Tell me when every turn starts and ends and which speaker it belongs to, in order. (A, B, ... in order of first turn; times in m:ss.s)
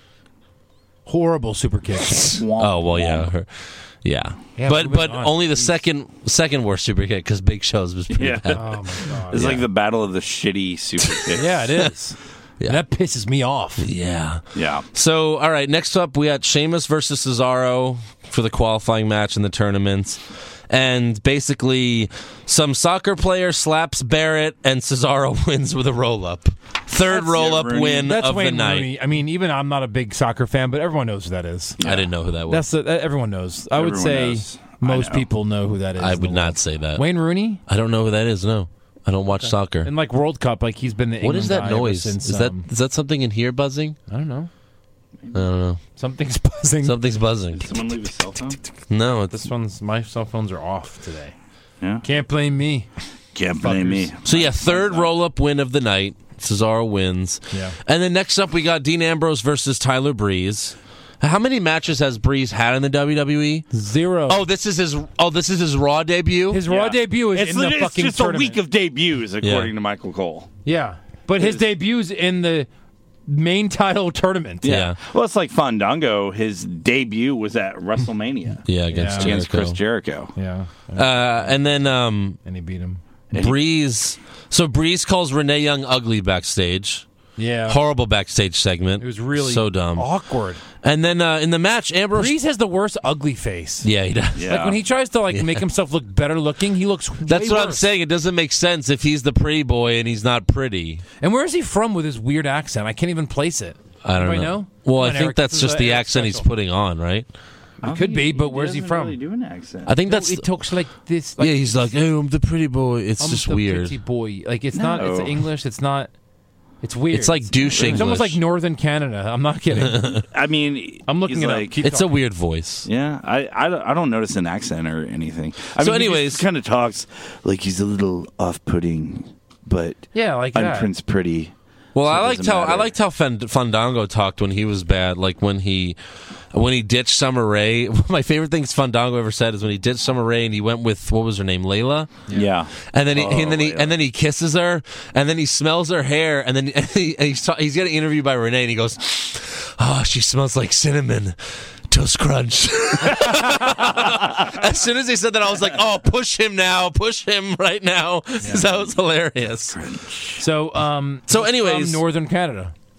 0:01.0-0:02.4 A
0:02.2-0:09.6 B
0:02.3-0:03.3 C
0:04.6-0:05.8 A
0:08.1-0:11.6 C
0:08.5-0:09.6 A
0:11.0-0:11.9 B
0:11.3-0:13.8 A
0:13.8-0:28.9 B
0:14.5-0:14.8 C
0:27.1-0:28.1 C
0:28.0-0:31.8 A
0:31.8-0:32.1 C
0:31.8-0:32.6 B
0:32.5-0:37.6 A
0:33.7-0:35.2 C
0:36.0-0:37.0 B
0:37.7-0:39.9 B
0:39.4-0:42.6 A
0:41.2-0:44.0 B
0:44.1-0:44.5 A
0:45.3-0:45.8 B
0:46.0-0:47.0 A
0:46.8-0:47.7 B
0:47.5-0:48.6 C
0:48.9-0:49.4 B
0:49.3-0:51.3 A
0:52.0-0:52.9 A
0:53.3-0:55.1 C
0:53.6-0:54.1 A
0:54.2-1:03.7 B
0:57.5-0:57.8 A
1:03.7-1:04.4 A
1:04.3-1:06.6 B
1:06.5-1:08.6 A
1:06.7-1:10.5 C
1:09.4-1:09.7 B
1:10.6-1:12.7 A
1:11.4-1:11.6 C
1:13.3-1:14.7 A
1:14.6-1:20.3 C
1:14.6-1:15.0 B
1:18.7-1:19.8 B
1:18.9-1:19.4 A
1:20.4-1:21.5 A
1:20.9-1:22.4 B
1:22.4-1:23.0 A
1:23.3-1:23.6 C
1:23.3-1:27.0 B
1:27.4-1:27.8 A
1:27.7-1:30.1 B
1:29.0-1:30.6 A
1:30.8-1:32.3 B
1:32.1-1:33.9 A
1:33.8-1:34.6 B
1:34.3-1:34.8 C
1:34.5-1:37.8 A
1:35.3-1:35.6 B
1:37.3-1:41.0 B
1:41.2-1:46.5 A
1:44.0-1:47.3 B
1:47.8-1:49.2 A
1:47.8-1:49.9 C
1:49.8-1:50.4 B
1:50.0-1:51.9 A
1:51.4-1:53.9 B
1:53.2-1:56.1 A
1:54.8-1:55.4 C
1:56.8-2:00.2 A
1:57.1-1:58.4 B
1:57.6-1:58.1 C
1:59.8-2:00.2 B
2:00.2-2:01.7 C
2:01.1-2:02.1 A
2:01.8-2:02.9 B
2:02.8-2:11.5 C
2:05.8-2:06.4 B
2:10.1-2:10.9 A
2:11.9-2:16.0 B
2:12.0-2:12.9 C
2:16.5-2:22.1 B
2:22.3-2:24.0 C
2:22.9-2:39.8 B
2:33.1-2:34.0 A
2:38.5-2:38.9 C
2:39.7-2:40.4 C
2:40.4-2:42.7 A
2:41.3-2:42.0 B